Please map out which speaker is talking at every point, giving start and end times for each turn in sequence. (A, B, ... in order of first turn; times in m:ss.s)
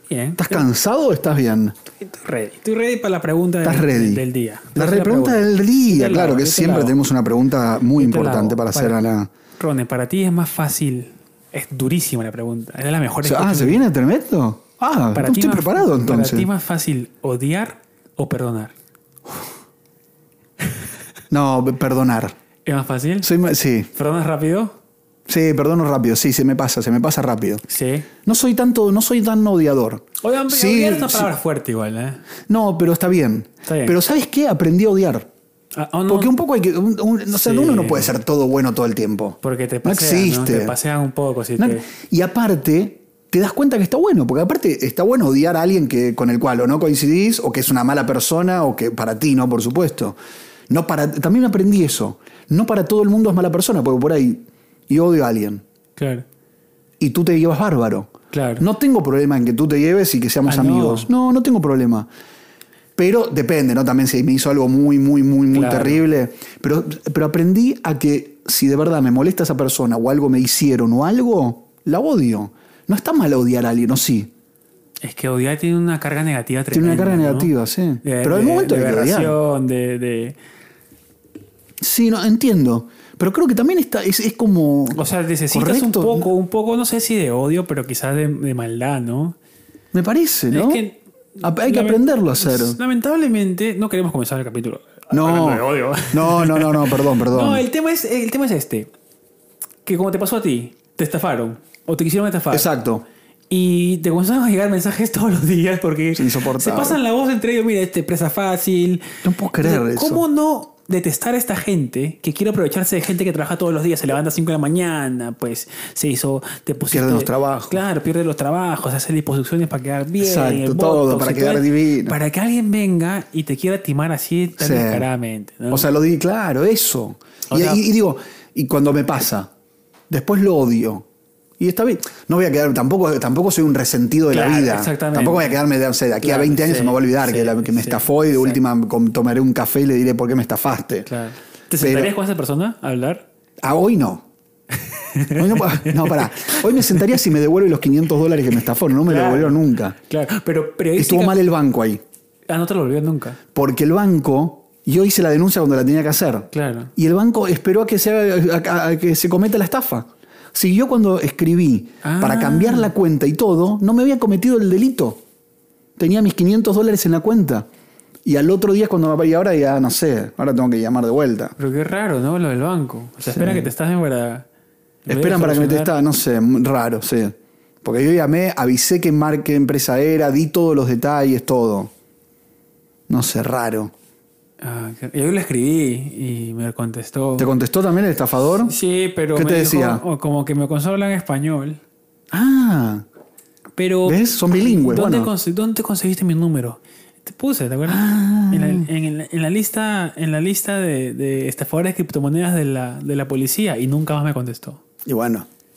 0:00.1-0:00.6 A
0:00.4-0:01.8 B
0:02.0-0:07.0 A
0:03.6-0:04.2 B
0:04.7-0:09.3 B
0:07.9-0:09.0 A
0:09.6-0:13.8 A
0:13.2-0:16.5 B
0:15.1-0:18.7 A
0:21.3-0:22.3 B
0:22.6-0:23.3 A
0:23.2-0:23.9 B
0:23.9-0:24.7 A
0:25.3-0:27.6 B
0:27.7-0:28.1 A
0:28.2-0:31.3 B
0:30.2-0:32.2 A
0:32.5-0:35.3 B
0:33.6-0:34.0 A
0:35.7-0:36.3 A
0:36.1-0:40.7 B
0:37.3-0:38.2 A
0:39.4-0:41.8 A
0:41.6-0:50.2 B
0:50.7-0:55.6 B
0:56.0-0:56.2 A
0:57.0-1:02.1 B
0:58.3-0:58.6 A
1:00.4-1:01.1 A
1:03.0-1:14.3 B
1:05.5-1:06.0 A
1:15.0-1:17.5 A
1:16.7-1:19.4 B
1:18.0-1:20.4 A
1:21.8-1:26.3 B
1:24.9-1:29.4 A
1:29.9-1:30.8 B
1:30.5-1:38.9 A
1:31.4-1:32.8 B
1:35.1-1:37.6 B
1:39.8-1:42.7 A
1:42.5-1:43.0 B
1:43.5-2:05.9 A
1:46.2-1:47.0 B
1:49.2-1:50.2 B
1:56.9-1:57.8 B
2:00.2-2:02.2 B
2:04.6-2:05.1 B
2:05.7-2:09.5 B
2:07.5-2:07.8 A
2:10.1-2:11.0 B
2:11.6-2:21.1 B
2:14.3-2:15.6 A
2:16.2-2:18.6 A
2:21.1-2:23.2 A
2:21.8-2:22.1 B
2:23.6-2:24.2 B
2:24.8-2:27.1 A
2:25.3-2:30.0 B
2:29.0-2:31.4 A
2:31.0-2:32.0 B
2:32.5-2:33.4 A
2:33.5-2:45.2 B
2:36.5-2:36.9 A
2:42.0-2:42.9 A
2:46.0-2:47.7 B
2:48.2-2:51.5 B
2:51.6-2:54.5 A
2:53.2-2:53.7 B
2:55.0-2:55.9 A
2:55.1-3:01.9 B
3:03.1-3:03.9 B
3:04.6-3:07.5 A
3:07.4-3:08.7 B
3:08.6-3:11.8 A
3:09.3-3:10.0 B
3:12.3-3:13.0 B
3:13.8-3:24.8 A
3:14.0-3:15.3 B
3:17.9-3:18.9 B
3:25.0-3:25.5 B